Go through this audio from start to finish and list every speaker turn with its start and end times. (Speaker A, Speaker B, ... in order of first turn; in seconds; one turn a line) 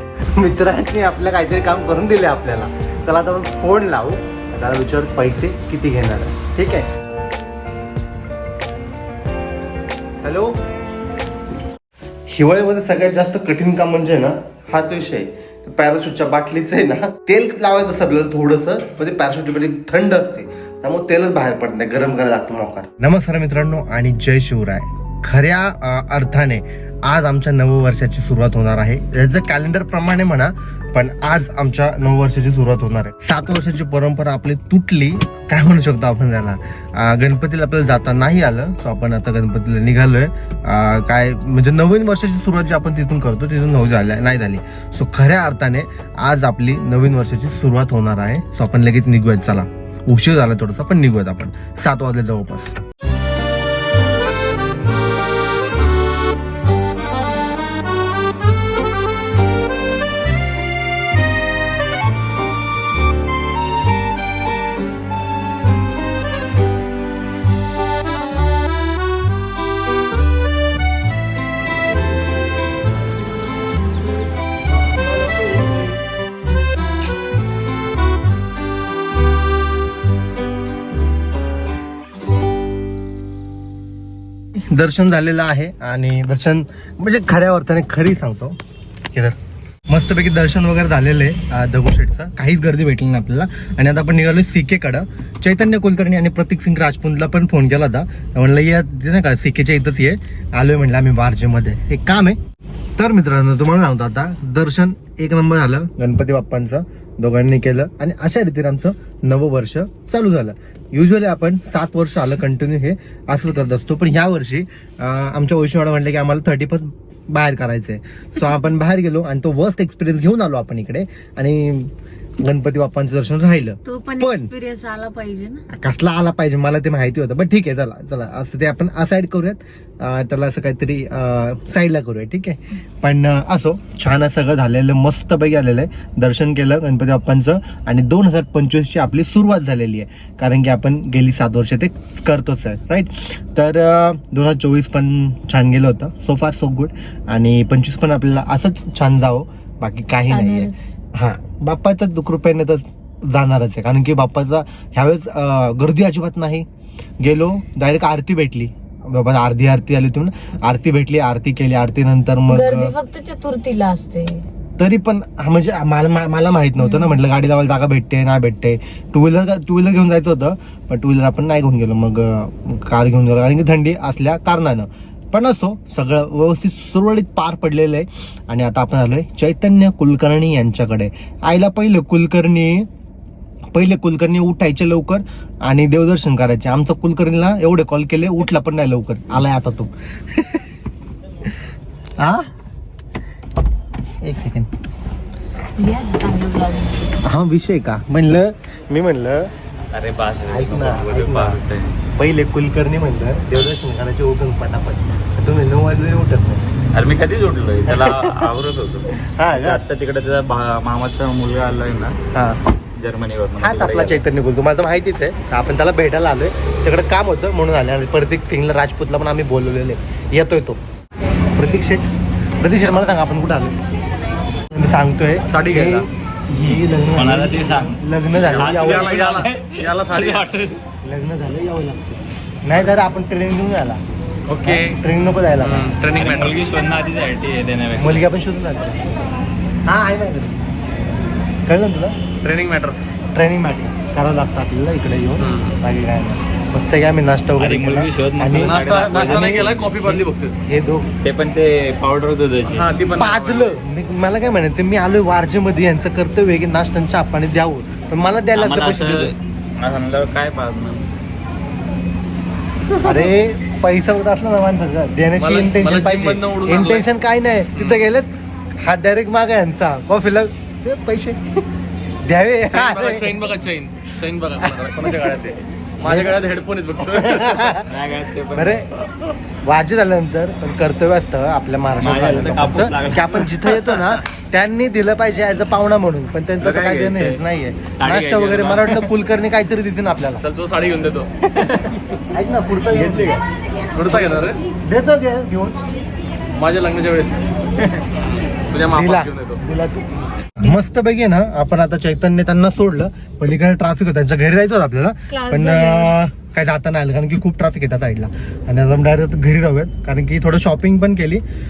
Speaker A: 0.3-6.9
Speaker A: 10.2-10.5
Speaker A: 12.3-52.8
Speaker A: 84.7-88.6
Speaker A: 89.9-102.4
Speaker A: 103.0-121.9
Speaker A: 122.4-124.5
Speaker B: 123.9-125.6
Speaker A: 125.7-156.7
Speaker B: 150.3-150.9
Speaker A: 157.2-162.9
Speaker B: 162.5-164.4
Speaker A: 164.8-182.9
Speaker B: 166.8-167.2
Speaker A: 183.7-190.6
Speaker A: 192.2-192.5
Speaker A: 194.2-194.7
Speaker B: 195.8-196.9
Speaker A: 197.3-199.5
Speaker C: 199.9-202.0
Speaker A: 200.5-201.6
Speaker A: 202.1-206.6
Speaker C: 206.9-212.2
Speaker A: 207.9-208.5
Speaker A: 209.2-209.8
Speaker A: 212.3-212.6
Speaker C: 213.0-214.2
Speaker A: 213.6-220.8
Speaker A: 221.6-222.1
Speaker A: 222.6-223.8
Speaker A: 224.7-229.2
Speaker D: 225.5-226.1
Speaker C: 227.1-230.8
Speaker D: 228.5-230.6
Speaker A: 231.0-234.0
Speaker D: 234.5-235.0
Speaker A: 234.6-235.9
Speaker D: 235.6-236.7
Speaker C: 236.2-238.3
Speaker A: 238.0-239.2
Speaker A: 239.9-240.7
Speaker A: 241.7-242.2
Speaker D: 242.4-243.1
Speaker A: 243.3-249.7
Speaker D: 245.4-245.8
Speaker C: 247.6-250.2
Speaker D: 248.6-250.5
Speaker A: 250.7-251.1
Speaker C: 251.2-252.9
Speaker D: 252.7-253.8
Speaker A: 253.2-259.3
Speaker C: 258.6-261.1
Speaker A: 263.0-271.4
Speaker D: 265.4-267.1
Speaker D: 267.8-268.1
Speaker A: 272.2-273.4
Speaker D: 272.7-277.7
Speaker A: 274.6-275.1
Speaker A: 276.0-276.4
Speaker A: 277.0-277.9
Speaker C: 277.8-278.9
Speaker A: 278.5-278.9
Speaker A: 279.6-290.4
Speaker C: 282.0-284.2
Speaker C: 286.6-287.4
Speaker C: 288.0-289.1
Speaker D: 290.4-291.3
Speaker C: 291.5-292.2
Speaker A: 292.3-293.4
Speaker C: 292.9-293.4
Speaker D: 293.9-294.6
Speaker A: 294.1-295.8
Speaker D: 296.6-297.4
Speaker C: 297.8-298.2
Speaker D: 298.2-299.6
Speaker A: 298.9-300.0
Speaker A: 300.6-311.4
Speaker B: 305.3-306.2